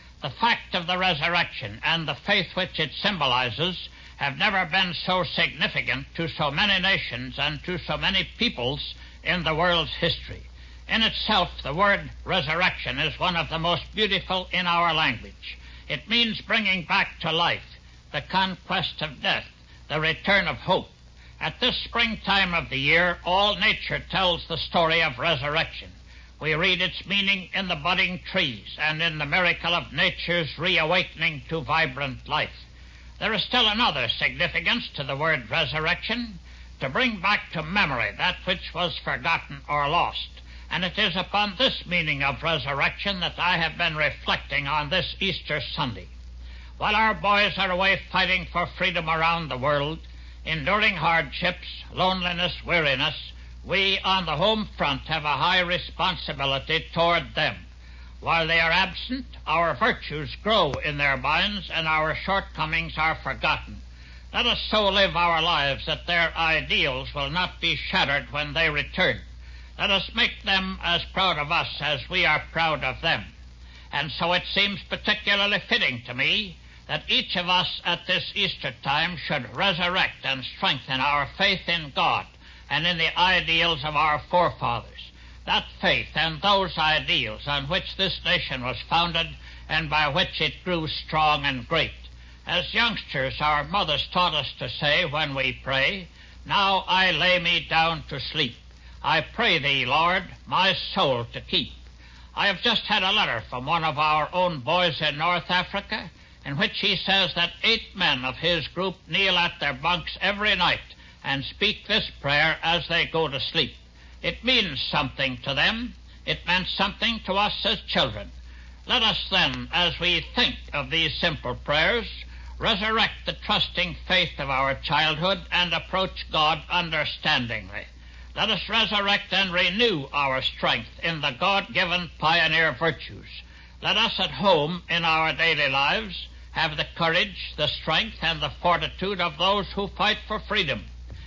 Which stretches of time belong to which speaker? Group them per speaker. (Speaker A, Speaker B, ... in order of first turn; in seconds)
Speaker A: 0.2-32.6, 33.2-46.1, 46.8-57.6, 58.2-69.2, 69.8-73.3, 73.9-101.8, 102.3-118.3, 118.9-140.9